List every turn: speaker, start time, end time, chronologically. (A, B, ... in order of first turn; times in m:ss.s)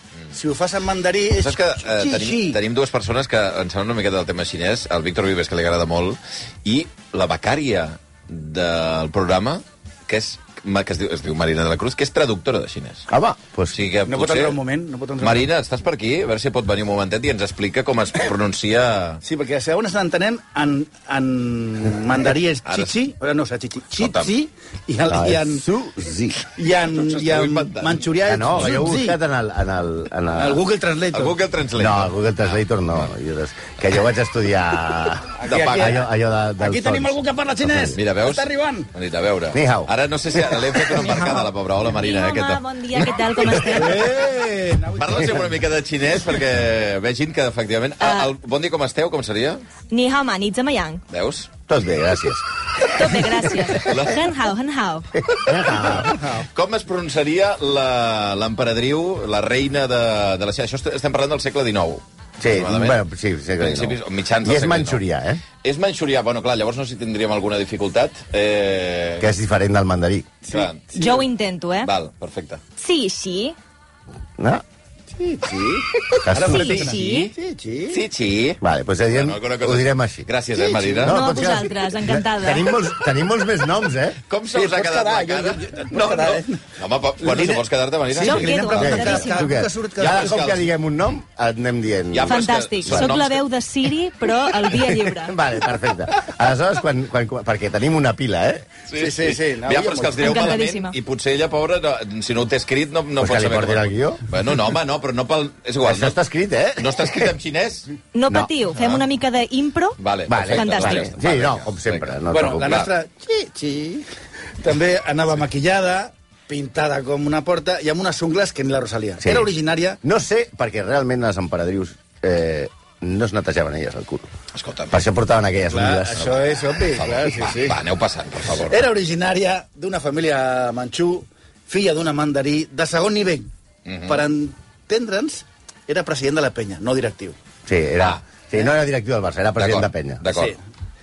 0:00.3-0:02.6 A
0:01.4-0:13.1 B
0:13.1-0:13.8 C
0:13.7-0:14.6 B
0:14.0-0:15.5 A
0:15.2-0:19.2 B
0:19.2-0:25.6 A
0:22.6-0:22.9 B
0:24.0-0:24.3 B
0:25.1-0:26.4 C
0:26.5-0:29.2 A
0:26.9-0:28.9 B
0:28.2-0:30.6 C
0:30.3-0:31.4 A
0:31.1-0:33.0 B
0:31.8-0:38.0 C
0:35.4-0:36.1 A
0:35.4-0:36.0 B
0:36.6-0:38.9 A
0:37.9-0:43.8 B
0:39.5-0:39.9 C
0:41.2-0:44.2 D
0:43.7-0:45.6 A
0:45.0-0:49.6 B
0:48.0-0:48.3 D
0:49.9-0:51.0 D
0:51.1-0:51.5 B
0:51.7-0:53.2 C
0:52.9-0:55.1 D
0:53.8-0:54.2 B
0:55.2-0:56.2 C
0:55.8-1:03.0 B
0:56.0-0:56.4 A
1:02.4-1:05.4 C
1:03.6-1:05.0 B
1:05.6-1:09.3 B
1:09.2-1:10.4 C
1:10.5-1:10.9 B
1:10.5-1:11.2 A
1:10.9-1:11.9 D
1:11.8-1:12.6 B
1:12.8-1:13.6 D
1:15.2-1:18.0 A
1:16.2-1:16.8 C
1:16.4-1:17.3 D
1:16.9-1:17.2 B
1:17.9-1:21.3 B
1:18.6-1:20.3 C
1:20.6-1:21.1 A
1:21.0-1:24.2 C
1:21.1-1:22.7 D
1:24.3-1:29.2 B
1:24.5-1:26.6 A
1:27.2-1:30.5 A
1:28.2-1:29.5 D
1:28.8-1:33.1 C
1:30.0-1:30.7 B
1:32.1-1:33.4 B
1:32.2-1:35.3 D
1:34.9-1:38.7 C
1:38.9-1:46.2 B
1:38.9-1:40.5 A
1:40.2-1:40.9 D
1:43.2-1:44.2 C
1:45.8-1:47.3 C
1:46.8-1:47.9 B
1:48.1-1:50.0 D
1:48.7-1:49.0 B
1:50.0-1:52.9 B
1:50.3-1:52.8 C
1:50.5-1:51.1 D
1:52.3-1:54.1 A
1:54.6-2:00.0 A
1:59.2-2:04.3 C
2:04.5-2:05.0 B
2:04.9-2:06.3 C
2:05.7-2:07.8 A
2:06.1-2:08.8 B
2:08.7-2:13.5 A
2:13.8-2:14.2 B
2:14.0-2:17.4 A
2:17.7-2:20.2 C
2:19.6-2:20.5 B
2:20.2-2:20.6 A